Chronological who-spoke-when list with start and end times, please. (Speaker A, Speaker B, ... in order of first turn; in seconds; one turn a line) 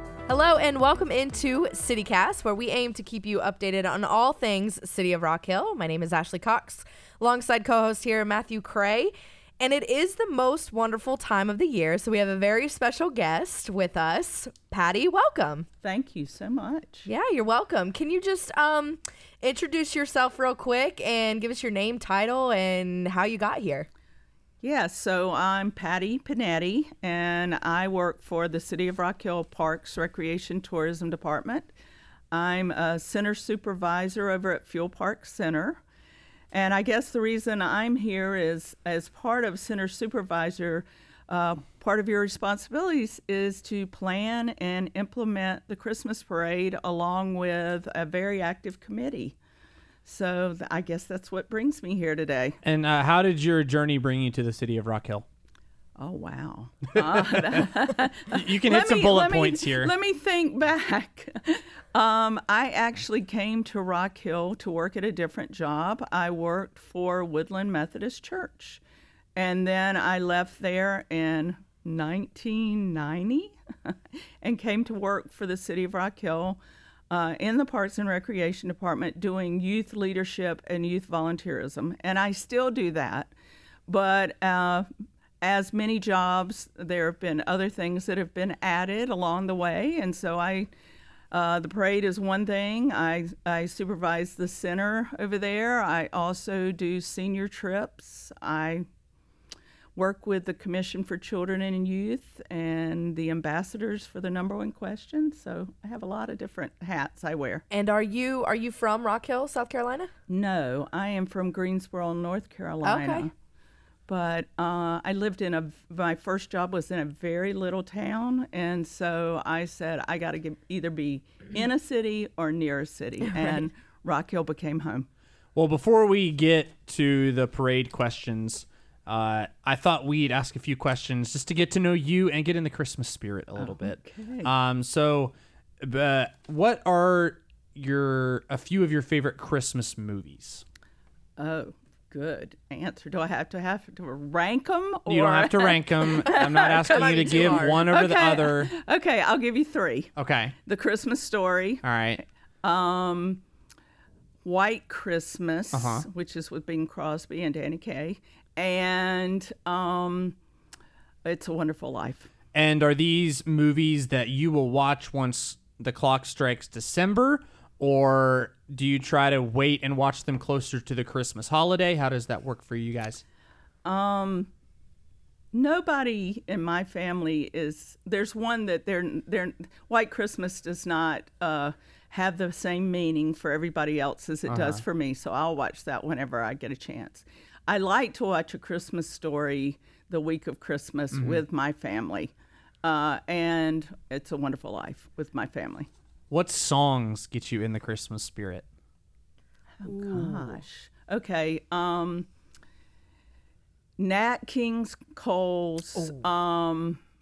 Speaker A: 0.3-15.7
Speaker B: 15.8-17.1
Speaker A: 17.1-23.9
Speaker B: 24.6-31.7
Speaker B: 32.3-35.8
Speaker B: 36.5-49.4
Speaker B: 50.0-52.6
Speaker C: 52.6-55.2
Speaker B: 56.0-68.8
Speaker C: 58.3-59.9
Speaker B: 69.4-83.3
Speaker B: 83.9-84.9
Speaker B: 85.4-90.7
Speaker B: 91.3-98.9
Speaker B: 100.0-107.7
Speaker A: 107.7-110.1
Speaker B: 110.3-113.3
Speaker A: 112.8-113.3
Speaker B: 114.1-125.1
Speaker A: 123.3-123.7
Speaker C: 125.5-140.6
Speaker B: 133.6-134.5
Speaker B: 141.4-150.1
Speaker C: 145.1-148.7
Speaker A: 146.6-147.9
Speaker C: 150.2-150.6
Speaker B: 150.6-151.8
Speaker C: 151.8-152.2
Speaker B: 152.6-153.4
Speaker B: 154.4-160.4
Speaker C: 155.7-156.1
Speaker B: 161.2-162.3
Speaker C: 162.5-173.2
Speaker B: 173.8-174.5
Speaker B: 175.5-192.3
Speaker C: 184.5-184.8
Speaker C: 191.1-191.4
Speaker B: 192.8-195.9
Speaker C: 196.3-198.7
Speaker B: 199.8-202.3
Speaker A: 199.9-200.6
Speaker B: 204.0-207.0
Speaker A: 206.0-206.2